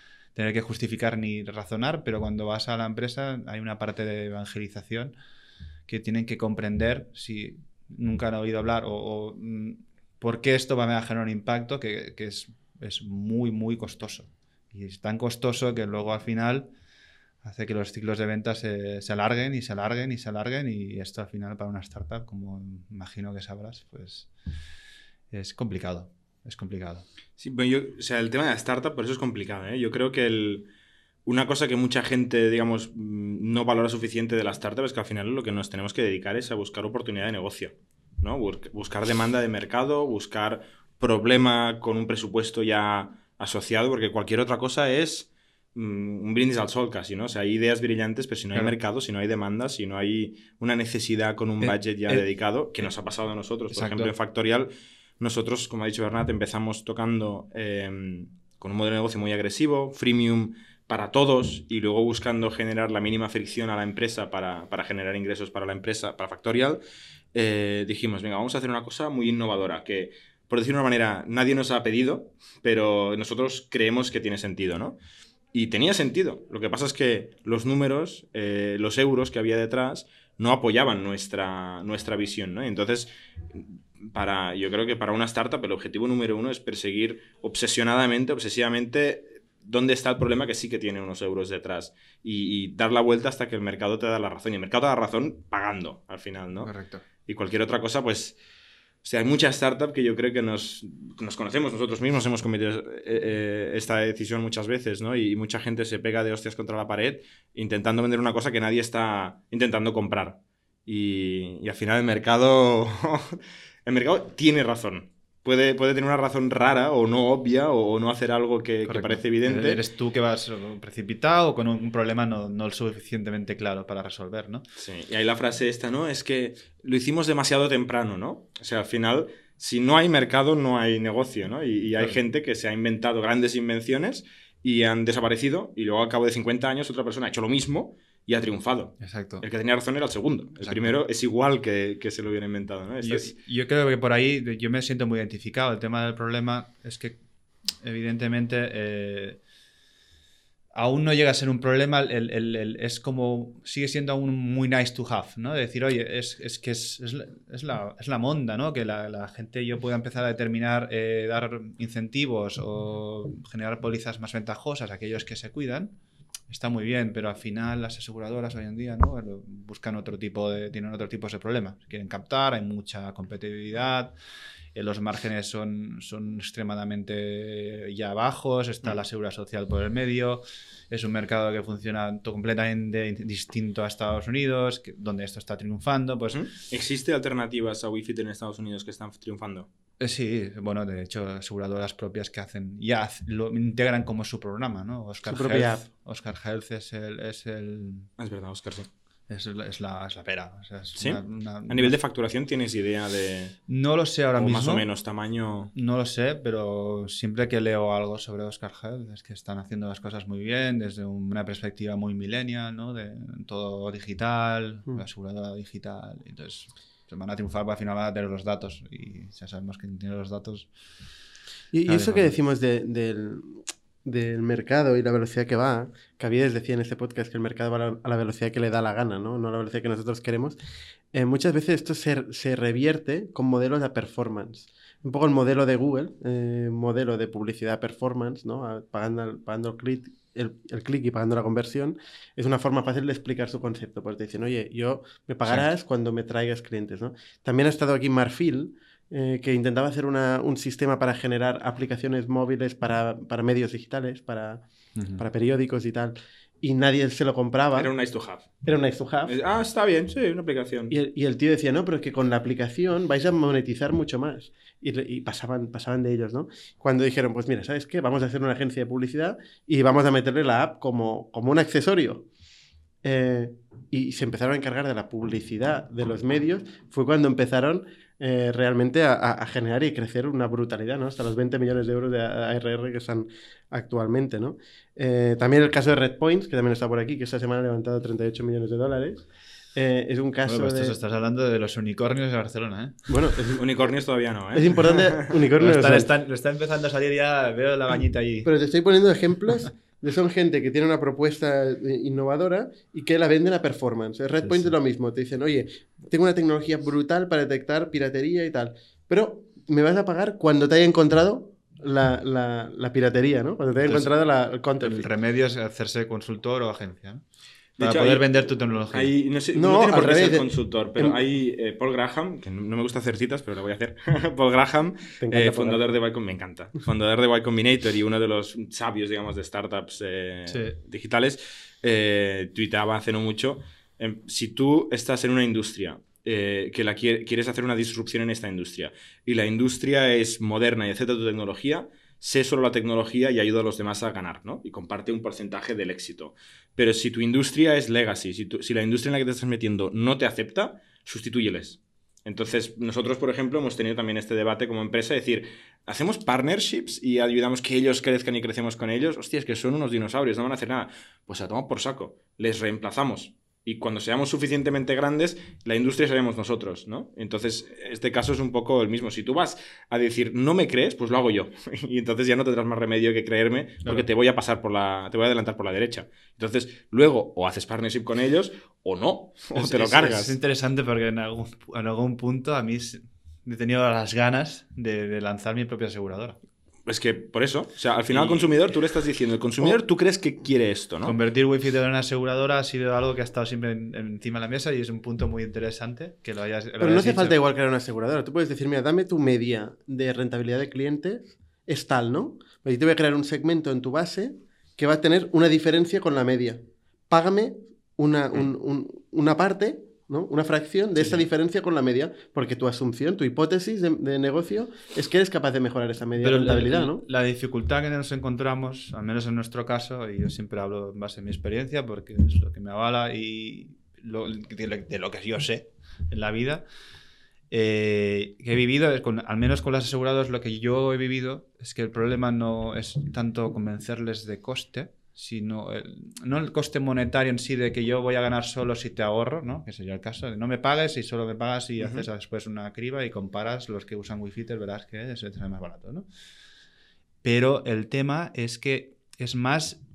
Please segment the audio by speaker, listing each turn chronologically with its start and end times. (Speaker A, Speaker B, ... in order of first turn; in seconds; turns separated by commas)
Speaker A: 0.3-5.1, Speaker A: 5.9-16.7, Speaker A: 17.4-24.3, Speaker A: 25.3-27.0, Speaker B: 27.4-30.7, Speaker B: 31.2-66.8, Speaker A: 51.6-52.2, Speaker A: 53.7-54.1, Speaker B: 67.3-75.0, Speaker B: 75.5-96.7, Speaker A: 96.6-97.0, Speaker B: 97.2-98.4, Speaker B: 99.0-119.8, Speaker A: 118.9-124.6, Speaker B: 124.8-143.3, Speaker A: 139.0-139.4, Speaker A: 140.6-141.0, Speaker A: 143.0-147.2, Speaker A: 147.8-149.4, Speaker A: 150.7-165.9, Speaker A: 166.5-174.1, Speaker A: 174.7-186.4, Speaker B: 186.3-189.7, Speaker A: 190.0-198.1, Speaker C: 195.2-195.9, Speaker B: 198.2-198.9, Speaker A: 199.3-201.9, Speaker B: 200.9-203.6, Speaker A: 203.7-204.9, Speaker B: 204.4-205.7, Speaker A: 205.7-220.7, Speaker C: 221.7-230.6, Speaker A: 221.9-222.4, Speaker C: 231.1-254.6, Speaker A: 254.9-255.2, Speaker C: 255.2-257.9, Speaker B: 257.7-258.5, Speaker C: 258.6-259.4, Speaker B: 259.3-260.9, Speaker C: 260.9-272.2, Speaker C: 273.0-290.9, Speaker A: 290.4-293.1, Speaker C: 293.1-293.6, Speaker B: 293.6-295.3, Speaker C: 294.5-296.1, Speaker A: 295.6-298.5, Speaker C: 298.4-315.1, Speaker A: 304.4-304.7, Speaker A: 314.8-317.2, Speaker B: 317.8-380.4, Speaker A: 317.8-319.1, Speaker C: 319.5-321.1, Speaker C: 325.2-325.9, Speaker A: 330.5-330.8, Speaker A: 379.6-386.4, Speaker B: 386.9-391.1, Speaker A: 388.1-388.5, Speaker A: 391.0-397.4, Speaker C: 396.8-417.0, Speaker A: 416.2-426.6, Speaker A: 427.5-446.1, Speaker B: 441.8-442.1, Speaker A: 447.2-449.8